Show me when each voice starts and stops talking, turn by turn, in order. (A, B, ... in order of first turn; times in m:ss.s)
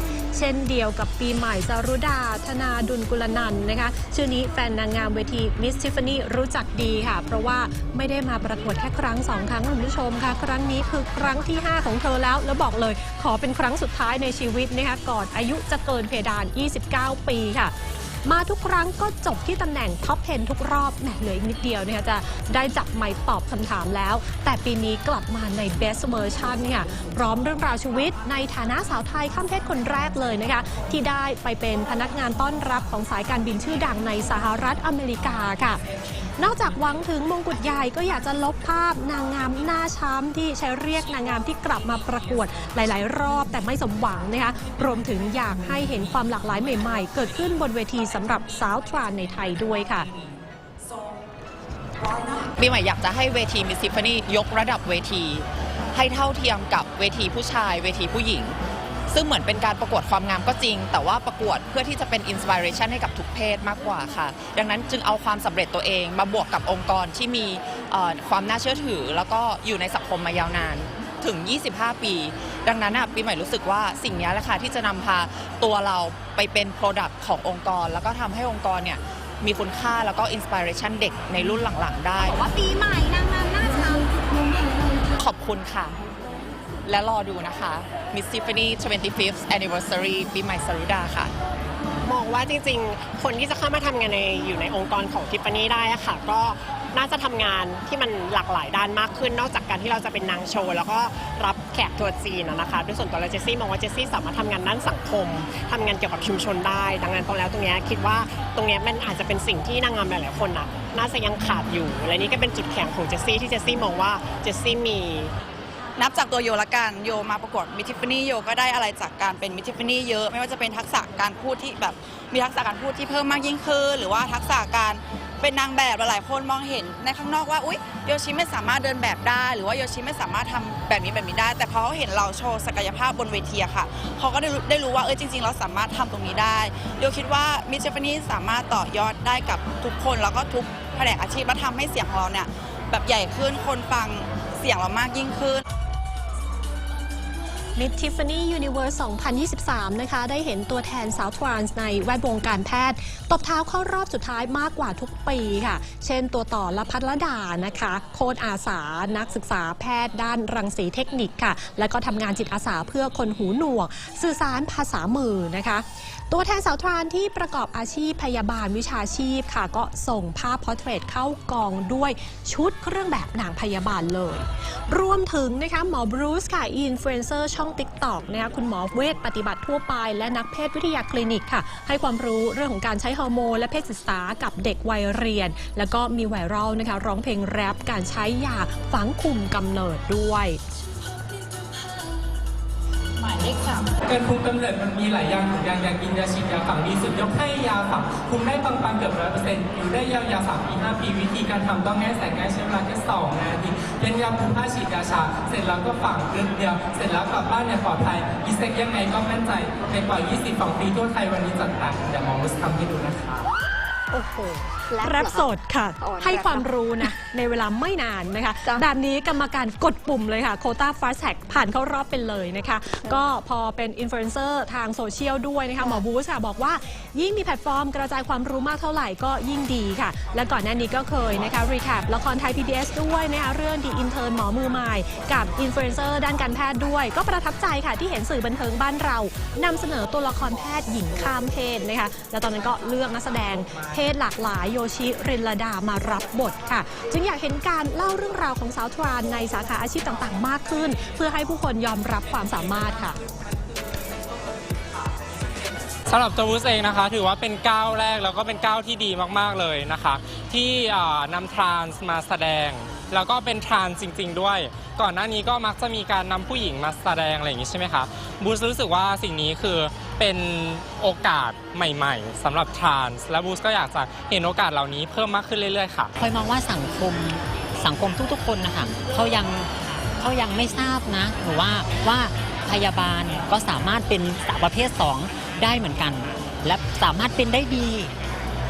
0:00.3-0:35.8 A
0:36.4-0:50.1 A
0:52.4-0:58.6 B
0:59.1-1:22.4 B
1:22.2-1:24.1 C
1:25.2-1:26.0 B
1:26.9-1:31.3 B
1:32.0-1:55.3 D
1:56.0-2:25.6 E
2:27.8-3:10.6 A
3:14.0-3:33.5 F
3:34.1-4:13.2 A
3:34.9-3:35.5 C
3:36.0-3:36.7 C
4:16.1-4:36.1 F
4:36.2-4:39.7 G
4:40.2-4:48.1 G